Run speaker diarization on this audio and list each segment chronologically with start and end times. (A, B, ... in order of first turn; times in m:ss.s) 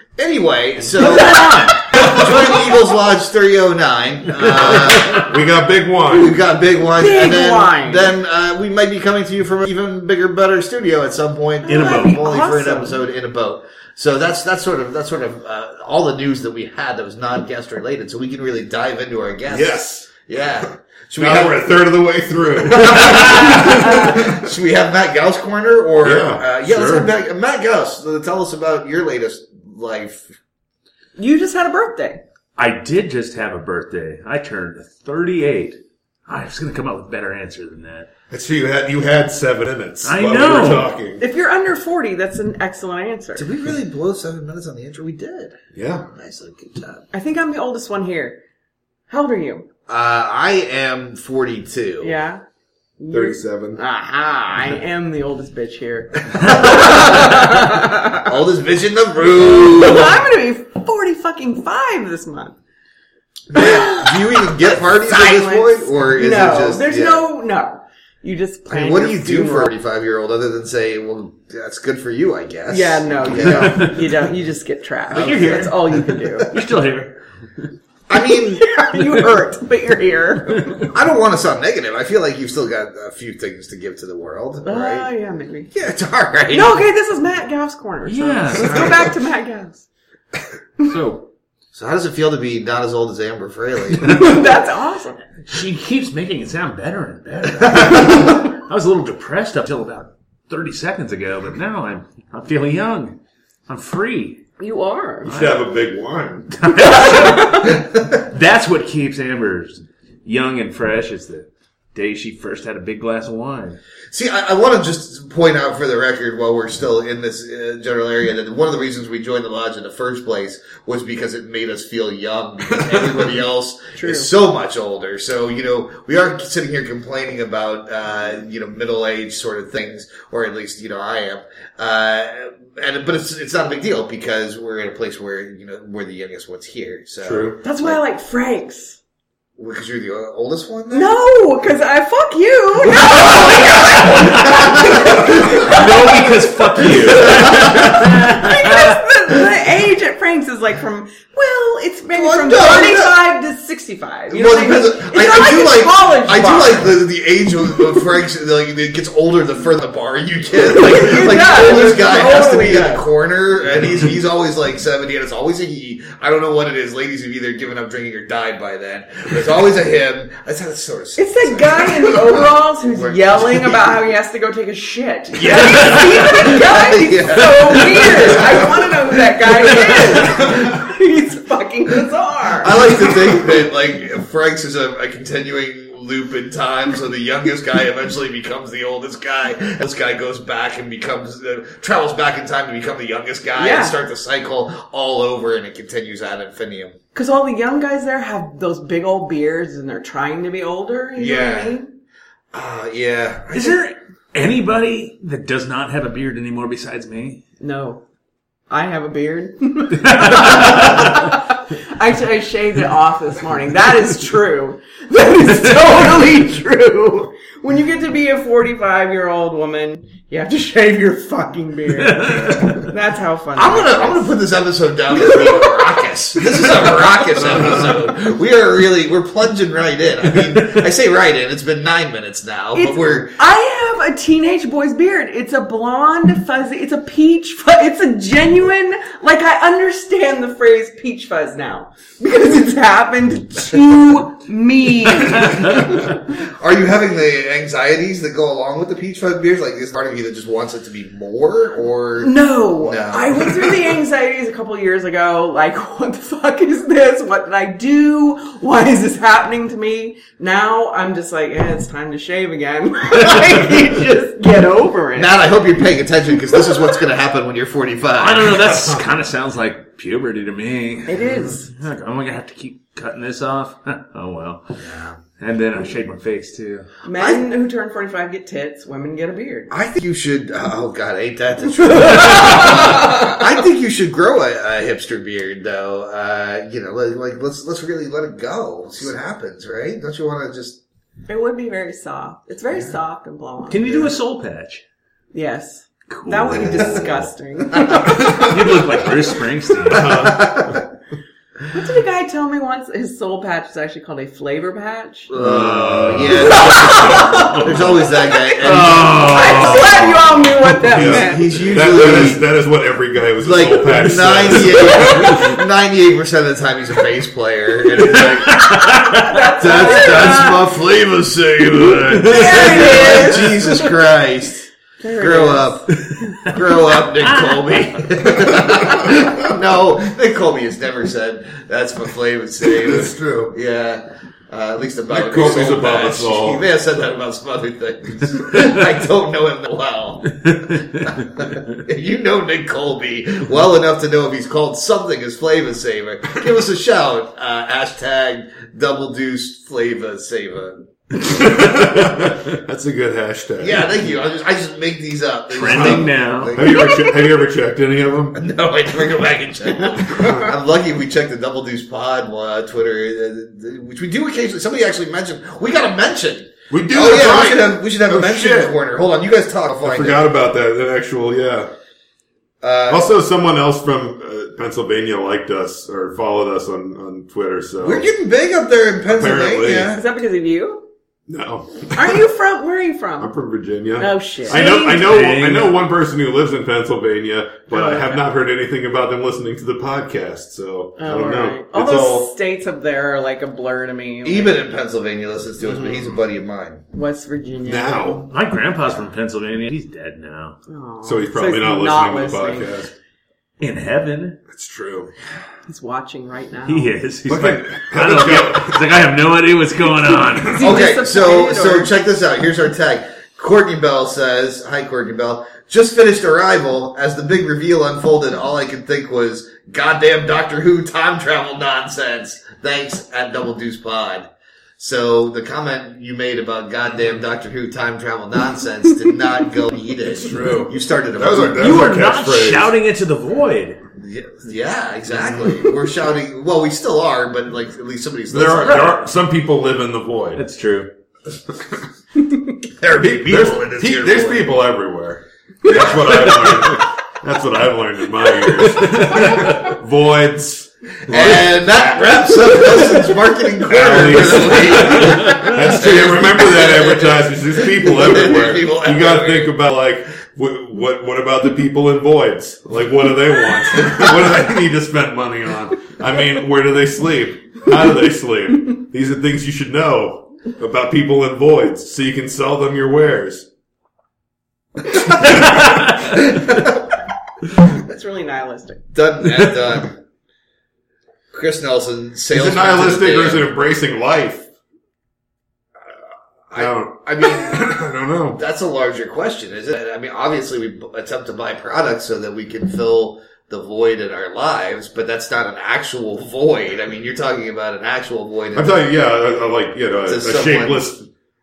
0:00.2-0:05.3 A
0:00.9-0:02.2 B
0:04.5-0:06.4 C
0:06.1-0:21.8 A
0:07.0-0:08.2 D
0:11.6-0:13.0 D
0:11.7-0:12.2 B
0:19.5-0:20.1 C
0:21.2-0:24.4 C
0:22.6-0:30.3 A
0:26.0-0:27.1 C
0:31.2-0:32.2 D
0:32.6-0:38.1 B
0:38.3-0:41.2 C
0:40.0-0:40.9 B
0:41.2-0:43.5 D
0:43.4-0:45.6 A
0:45.8-0:46.1 C
0:46.1-0:47.0 A
0:47.1-0:48.4 D
0:49.1-0:49.7 D
0:49.9-0:52.2 A
0:52.0-0:52.4 D
0:53.0-0:58.3 D
0:53.1-0:53.8 C
0:56.3-1:00.2 A
0:59.3-1:02.6 D
1:03.5-1:07.2 A
1:03.5-1:09.7 D
1:08.7-1:14.1 A
1:12.7-1:16.5 D
1:13.4-1:14.1 B
1:15.1-1:17.7 B
1:15.1-1:15.8 A
1:18.1-1:18.7 A
1:18.3-1:20.9 D
1:20.6-1:20.9 B
1:20.9-1:25.1 A
1:24.6-1:25.7 D
1:25.7-1:26.8 A
1:26.5-1:29.8 D
1:28.1-1:29.1 B
1:30.8-1:31.3 B
1:31.7-1:34.5 A
1:34.0-1:35.3 D
1:35.5-1:44.4 B
1:37.6-1:38.1 A
1:44.6-1:45.3 D
1:45.2-1:45.7 B
1:45.2-1:46.7 C
1:46.5-1:53.8 B
1:46.8-1:47.8 D
1:54.1-2:18.0 A
2:02.7-2:03.4 C
2:03.9-2:04.3 D
2:17.2-2:17.6 C
2:17.6-2:19.0 D
2:19.6-2:21.1 A
2:20.9-2:37.0 D
2:23.1-2:23.6 A
2:24.1-2:29.0 B
2:24.6-2:25.2 A
2:27.3-2:28.0 A
2:32.1-2:33.2 A
2:34.3-2:54.0 A
2:40.7-2:43.0 D
2:51.2-3:02.9 D
2:55.4-2:56.6 B
2:55.4-2:58.9 A
2:57.8-2:58.5 B
2:59.8-3:00.7 A
3:02.6-3:17.0 A
3:13.6-3:14.0 D
3:17.1-3:21.9 D
3:21.2-3:21.8 A
3:22.5-3:23.8 A
3:23.5-3:27.4 B
3:27.6-3:28.0 D
3:28.7-3:44.3 D
3:30.0-3:31.2 B
3:42.0-3:42.9 B
3:43.6-3:53.4 A
3:45.1-3:45.9 D
3:47.4-3:48.0 C
3:52.7-4:06.2 D
4:05.7-4:13.8 A
4:12.2-4:25.4 D
4:25.2-4:28.7 A
4:28.2-4:34.6 B
4:28.7-4:29.0 C
4:31.1-4:31.7 D
4:34.8-4:35.2 A
4:35.4-4:36.9 B
4:37.0-4:39.7 D
4:37.2-4:37.4 A
4:39.7-4:50.8 A
4:41.9-4:43.3 D
4:51.3-4:54.1 D
4:53.7-4:54.8 B
4:55.3-4:58.5 D
4:56.1-4:57.2 B
4:56.7-4:57.0 A
4:58.0-5:00.3 B
4:59.9-5:00.8 C
4:59.9-5:00.8 A
5:01.7-5:05.3 D
5:05.3-5:10.2 A
5:05.4-5:06.6 C
5:05.8-5:06.2 B
5:06.4-5:11.8 D
5:07.0-5:07.5 B
5:08.6-5:09.9 B
5:08.7-5:10.1 C
5:10.9-5:15.4 C
5:10.9-5:12.4 A
5:13.4-5:52.0 A
5:14.8-5:15.6 D
5:18.0-5:19.4 B
5:18.7-5:20.8 D
5:22.0-5:23.4 B
5:22.2-5:23.8 D
5:25.0-5:26.4 D
5:27.2-5:28.0 B
5:32.7-5:33.6 C
5:35.1-5:36.7 C
5:51.2-5:53.9 C
5:53.6-5:56.9 A
5:55.5-5:56.6 B
5:55.6-5:58.4 C
5:56.7-5:57.2 D
5:58.4-6:10.2 A
6:00.2-6:00.5 C
6:06.7-6:08.8 C
6:09.7-6:11.7 C
6:12.6-6:13.1 A
6:12.9-6:18.1 C
6:17.8-6:20.0 A
6:19.1-6:20.0 C
6:19.9-6:20.9 D
6:21.3-6:22.2 C
6:21.9-6:23.3 D
6:23.2-6:32.3 C
6:24.0-6:25.1 D
6:24.5-6:25.8 B
6:27.7-6:28.2 D
6:31.0-6:34.6 D
6:34.2-6:36.8 A
6:35.6-6:36.2 C
6:36.9-6:38.3 D
6:37.6-6:38.3 C
6:38.3-6:40.6 B
6:40.7-6:42.8 D
6:41.0-6:42.9 C
6:43.6-6:44.4 B
6:44.5-6:45.1 C
6:45.7-6:47.0 D
6:46.7-6:50.7 B
6:47.3-6:48.8 C
6:50.4-6:51.9 D
6:50.6-7:11.8 A
7:10.2-7:12.7 C
7:11.6-7:13.8 B
7:14.0-7:19.0 A
7:15.1-7:15.6 C
7:18.3-7:20.4 C
7:20.4-7:20.9 B
7:22.8-7:24.6 A
7:23.0-7:33.0 C
7:25.6-7:26.5 A
7:29.1-7:29.4 B
7:31.1-7:39.6 A
7:33.7-7:53.5 C
7:55.0-7:55.4 A
7:56.1-7:56.8 A
7:57.6-7:58.8 D
7:58.9-8:00.0 A
8:01.3-8:03.5 A
8:02.3-8:04.5 C
8:06.5-8:07.8 A
8:06.6-8:08.4 C
8:08.4-8:18.8 A
8:18.5-8:21.1 C
8:20.1-8:20.9 A